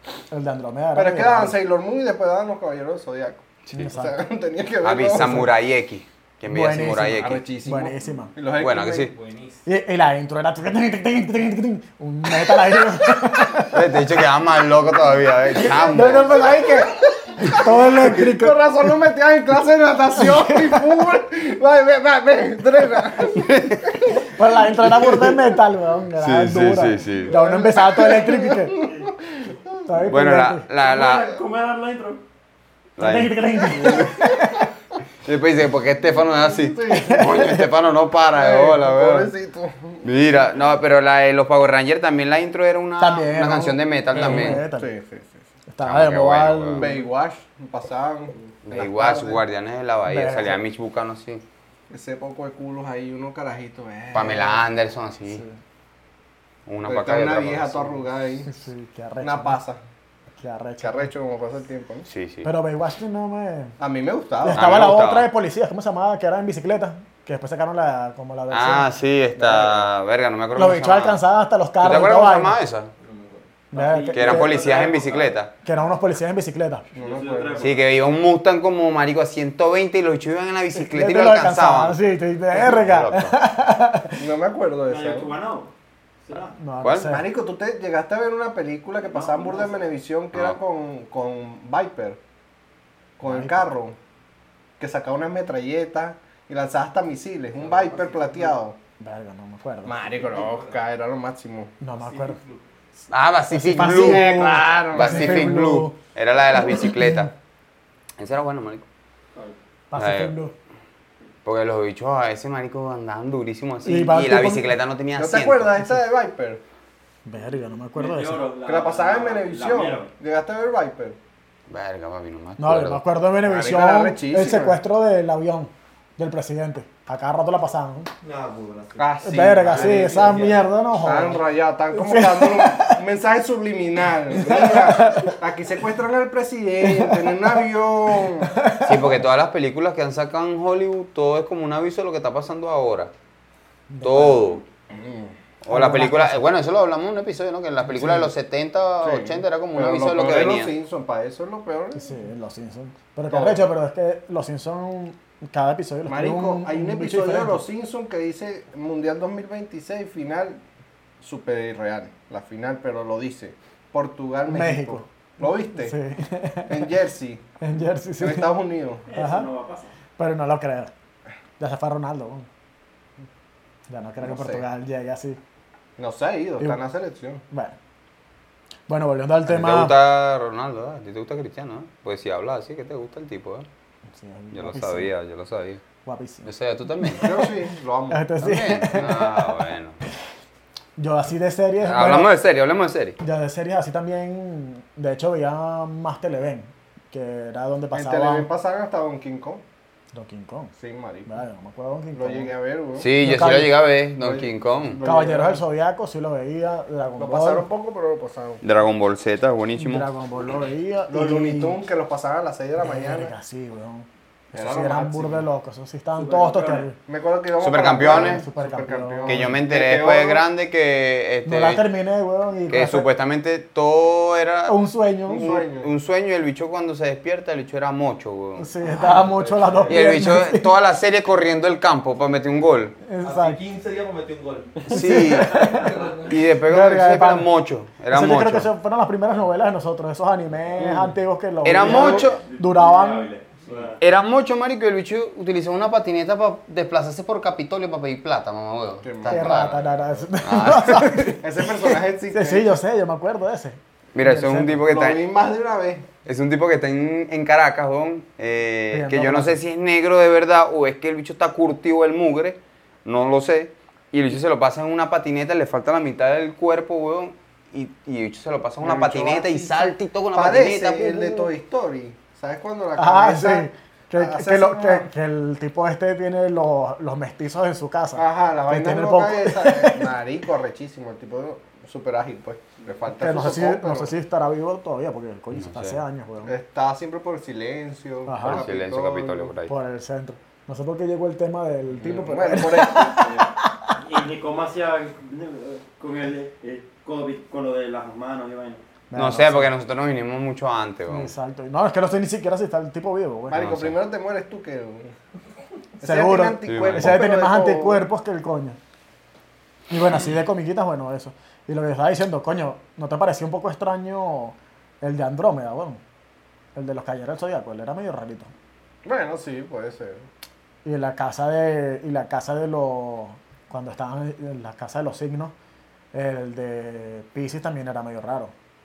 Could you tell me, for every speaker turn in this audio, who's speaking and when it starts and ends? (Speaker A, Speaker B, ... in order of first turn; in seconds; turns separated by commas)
Speaker A: 0.3-1.6, Speaker B: 0.9-5.5, Speaker A: 3.7-4.2, Speaker C: 4.8-7.4, Speaker A: 5.1-5.5, Speaker A: 6.5-8.3, Speaker B: 7.1-9.1, Speaker D: 8.6-9.6, Speaker C: 8.6-9.1, Speaker A: 9.6-13.9, Speaker C: 13.7-16.6, Speaker A: 15.8-18.9, Speaker B: 16.0-16.6, Speaker B: 17.3-24.0, Speaker A: 20.2-20.9, Speaker C: 23.4-23.9, Speaker A: 24.2-28.8, Speaker B: 24.8-25.4, Speaker C: 26.2-27.4, Speaker B: 27.3-29.6, Speaker E: 28.8-29.1, Speaker A: 29.9-30.6, Speaker C: 30.1-31.3, Speaker E: 30.8-32.2, Speaker C: 33.0-34.4, Speaker A: 33.0-34.4, Speaker B: 33.9-34.4, Speaker C: 35.2-39.3, Speaker B: 36.3-37.4, Speaker A: 36.9-37.7, Speaker B: 38.3-40.1, Speaker C: 40.0-44.6, Speaker A: 43.0-44.9, Speaker B: 44.3-45.4, Speaker A: 45.7-47.0, Speaker C: 45.8-46.9, Speaker B: 46.8-49.4, Speaker C: 48.6-51.4, Speaker A: 50.1-50.6, Speaker B: 51.9-54.6, Speaker C: 54.1-55.4, Speaker C: 56.6-58.0, Speaker B: 56.9-58.5, Speaker A: 58.5-59.6, Speaker B: 59.2-59.8, Speaker A: 60.4-61.1, Speaker B: 60.8-62.1, Speaker C: 62.1-62.5, Speaker A: 62.4-63.7, Speaker B: 63.8-64.7, Speaker A: 64.4-69.9, Speaker C: 64.5-65.3, Speaker C: 68.5-71.2, Speaker A: 70.5-72.6, Speaker C: 71.8-72.9, Speaker D: 73.0-73.5, Speaker A: 73.7-74.6, Speaker E: 73.7-75.3, Speaker C: 74.1-75.5, Speaker A: 75.6-76.8, Speaker B: 76.9-77.8, Speaker E: 77.0-77.8, Speaker C: 77.6-82.0, Speaker A: 80.7-84.2, Speaker C: 82.5-83.3, Speaker B: 84.2-85.3, Speaker E: 84.9-85.7, Speaker E: 86.2-86.5, Speaker A: 86.5-87.2, Speaker C: 86.8-87.1, Speaker B: 87.0-92.2, Speaker E: 89.0-89.8, Speaker B: 93.2-94.0, Speaker A: 93.2-93.7, Speaker B: 94.8-98.8, Speaker D: 97.5-98.5, Speaker A: 99.0-100.0, Speaker B: 99.8-101.7, Speaker D: 100.1-100.8, Speaker A: 101.8-102.4, Speaker D: 102.0-102.6, Speaker C: 103.1-107.3, Speaker A: 103.5-106.0, Speaker B: 103.8-105.6, Speaker A: 106.5-107.3, Speaker C: 108.2-108.8, Speaker A: 109.9-110.5, Speaker C: 110.0-110.3, Speaker C: 111.4-115.8, Speaker A: 113.8-114.7, Speaker B: 115.2-116.6, Speaker A: 117.2-118.5, Speaker E: 117.9-120.1, Speaker B: 118.6-121.2, Speaker C: 121.7-123.0, Speaker A: 122.6-128.1, Speaker B: 123.4-124.8, Speaker D: 128.2-130.7, Speaker B: 129.0-130.4, Speaker A: 129.2-133.0, Speaker B: 131.0-138.5, Speaker A: 134.3-135.3, Speaker A: 136.8-137.3, Speaker A: 138.4-139.2, Speaker C: 138.8-143.1, Speaker A: 143.9-144.4, Speaker C: 144.0-144.6, Speaker B: 144.9-145.3, Speaker C: 145.6-150.7, Speaker A: 145.7-146.4, Speaker A: 147.9-148.3, Speaker B: 149.0-152.0, Speaker A: 151.9-157.6, Speaker B: 153.3-153.7, Speaker B: 156.1-160.6, Speaker B: 161.2-166.0, Speaker A: 164.5-166.8, Speaker B: 166.7-167.4, Speaker A: 167.6-168.6, Speaker B: 168.2-169.0, Speaker E: 169.1-169.9, Speaker A: 169.1-169.5, Speaker A: 170.2-170.9, Speaker A: 171.6-172.5, Speaker A: 173.9-175.4, Speaker B: 174.2-174.6, Speaker B: 176.0-177.4, Speaker A: 178.9-179.9, Speaker C: 179.4-183.6, Speaker A: 184.2-185.1, Speaker C: 184.5-185.8, Speaker A: 186.0-186.5, Speaker C: 186.4-187.3, Speaker A: 187.0-187.4, Speaker B: 187.2-188.2, Speaker A: 188.1-189.7, Speaker C: 188.4-190.0, Speaker A: 191.0-192.3, Speaker C: 191.8-193.2, Speaker A: 193.2-198.5, Speaker B: 197.9-199.6, Speaker A: 200.1-200.7, Speaker B: 200.8-201.3, Speaker A: 201.3-202.5, Speaker B: 202.1-203.1, Speaker C: 203.0-205.0, Speaker A: 203.2-203.8, Speaker B: 204.2-205.6, Speaker A: 205.0-207.7, Speaker B: 207.2-208.6, Speaker C: 208.6-210.1, Speaker A: 209.8-211.8, Speaker B: 211.1-213.3, Speaker A: 212.8-217.0, Speaker B: 214.5-215.4, Speaker E: 216.2-216.9, Speaker B: 217.1-220.4, Speaker C: 217.6-218.4, Speaker A: 218.0-219.4, Speaker C: 219.2-221.8, Speaker A: 221.4-223.1, Speaker C: 222.7-224.8, Speaker A: 224.7-225.6, Speaker B: 225.3-225.9, Speaker C: 225.3-228.7, Speaker A: 228.6-230.7, Speaker D: 229.0-230.1, Speaker C: 229.8-232.9, Speaker A: 233.1-233.6, Speaker D: 233.2-234.9, Speaker C: 234.9-238.7, Speaker A: 234.9-237.5, Speaker D: 235.6-236.3, Speaker A: 238.1-243.3, Speaker C: 241.6-242.4, Speaker E: 241.8-244.0, Speaker C: 244.0-249.8, Speaker B: 249.0-249.6, Speaker A: 249.3-254.8, Speaker C: 250.4-251.2, Speaker B: 251.4-252.8, Speaker C: 254.1-255.2, Speaker B: 254.8-256.1, Speaker C: 256.2-271.5, Speaker A: 258.9-259.6, Speaker B: 268.8-275.1, Speaker A: 273.0-280.1, Speaker B: 278.1-284.1, Speaker A: 283.2-286.5, Speaker C: 285.5-286.0, Speaker B: 286.4-289.5, Speaker A: 288.2-288.6, Speaker C: 288.4-289.7, Speaker A: 289.7-293.9, Speaker B: 292.0-293.2, Speaker E: 292.6-298.8, Speaker A: 299.1-299.7, Speaker C: 299.1-301.3, Speaker A: 301.1-303.6, Speaker B: 303.5-305.1, Speaker C: 303.5-304.0, Speaker B: 306.0-308.0, Speaker A: 306.0-308.8, Speaker C: 306.7-307.2, Speaker A: 309.9-316.0, Speaker A: 316.7-318.5, Speaker B: 319.0-320.3, Speaker A: 320.8-325.5, Speaker A: 326.1-328.5